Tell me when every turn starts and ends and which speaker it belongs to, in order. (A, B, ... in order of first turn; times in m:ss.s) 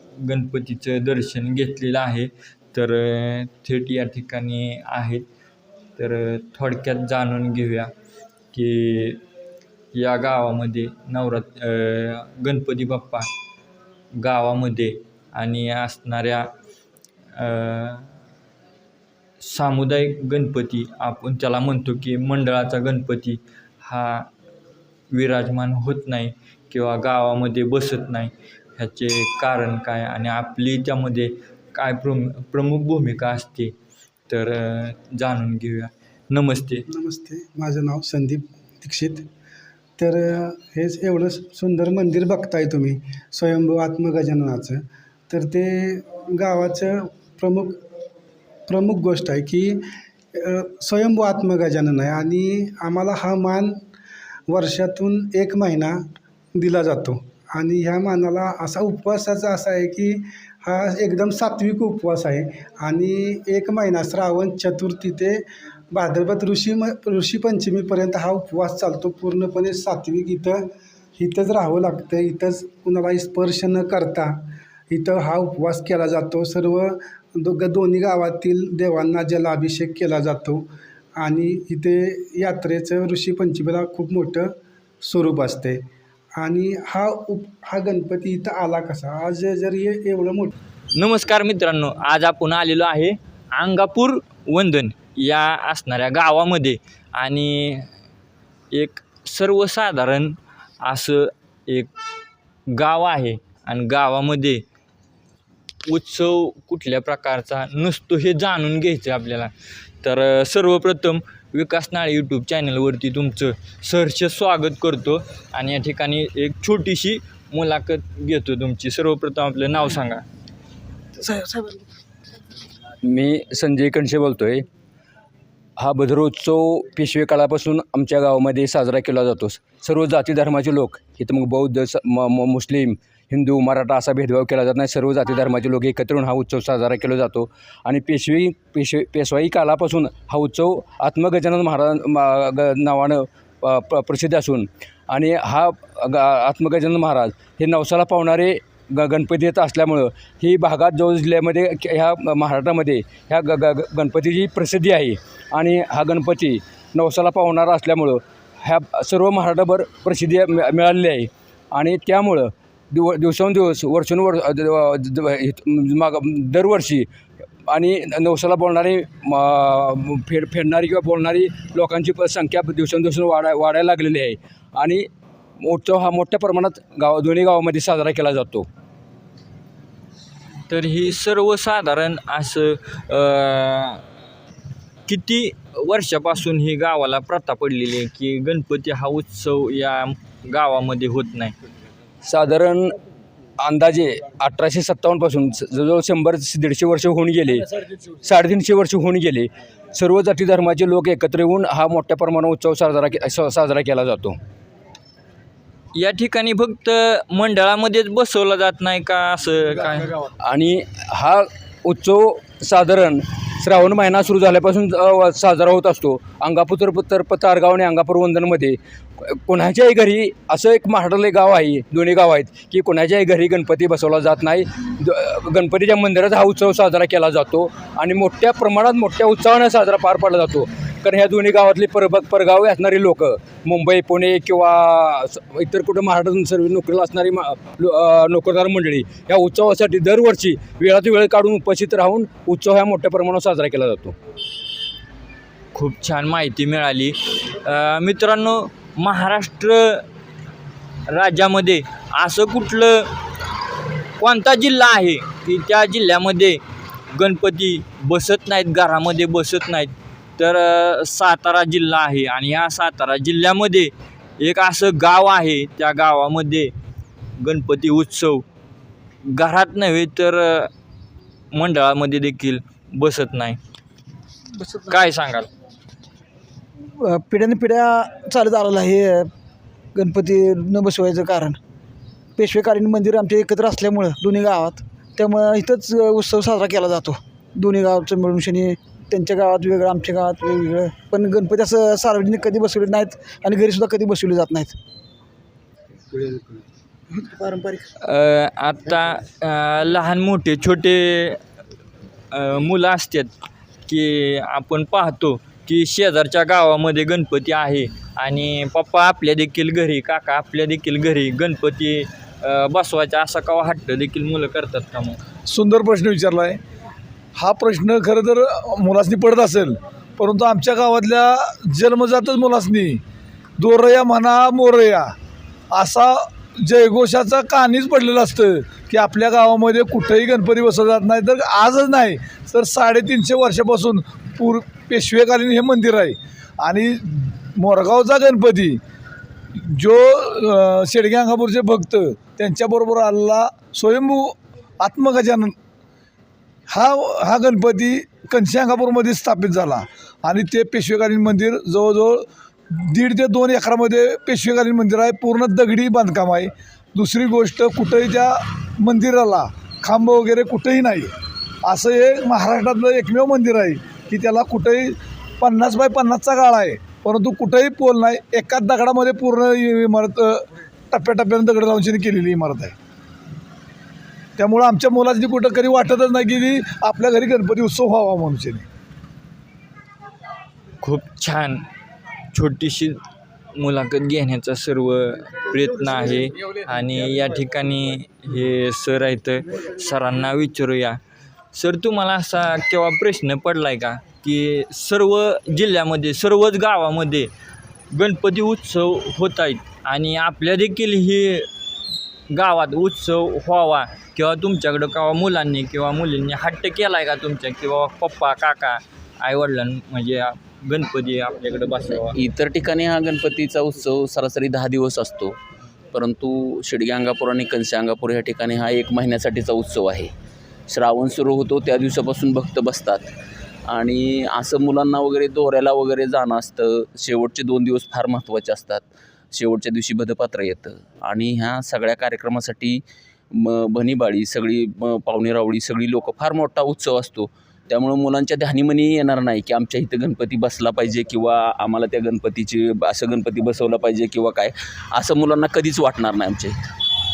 0:00.2-0:05.2 A
0:06.0-0:07.9 A
0:08.5-0:09.2 A
0:09.9-0:13.3 A
0:14.2-0:16.5 A
0:17.4-0:18.1 A
0:19.4-0:24.3 A
0:25.1-0:33.7 A
0:34.3-0:36.8 A
0:36.9-0:39.3 B
0:40.0-0:47.8 B
0:48.7-0:53.8 B
0:54.5-1:30.5 B
1:31.0-1:37.9 A
1:38.7-1:41.9 A
1:42.7-1:44.6 A
1:45.9-2:00.2 A
2:01.2-2:01.8 C
2:03.0-2:04.6 D
2:05.8-2:47.1 D
2:47.7-2:55.1 D
2:55.6-2:58.7 D
3:00.7-3:04.0 A
3:05.1-3:11.5 A
3:12.2-3:13.0 D
3:13.6-3:24.4 D
3:26.0-3:30.1 A
3:30.4-4:04.1 D
4:05.7-4:10.0 A
4:11.1-4:13.1 A
4:14.2-4:16.6 A
4:17.1-4:26.7 A
4:27.4-4:28.4 A
4:29.2-4:30.7 A
4:31.5-4:33.6 A
4:34.6-4:34.9 C
4:34.9-4:35.5 A
4:37.0-4:39.3 C
4:39.9-4:41.6 C
4:42.4-4:54.8 C
4:57.2-4:57.8 C
4:58.0-5:01.4 A
5:02.3-5:03.3 A
5:03.9-5:15.2 A
5:15.5-5:16.6 E
5:17.4-5:23.0 E
5:23.6-5:25.1 E
5:25.7-5:38.8 E
5:39.5-5:45.5 E
5:46.7-6:01.1 E
6:01.6-6:12.7 E
6:14.4-6:18.6 E
6:20.8-6:21.6 A
6:22.3-6:23.0 A
6:23.5-6:31.0 A
6:31.5-6:37.3 A
6:37.9-6:41.5 A
6:42.3-6:52.2 A
6:52.1-6:55.4 F
6:55.9-7:00.1 F
7:00.7-7:03.1 F
7:03.7-7:12.8 F
7:13.3-7:26.5 F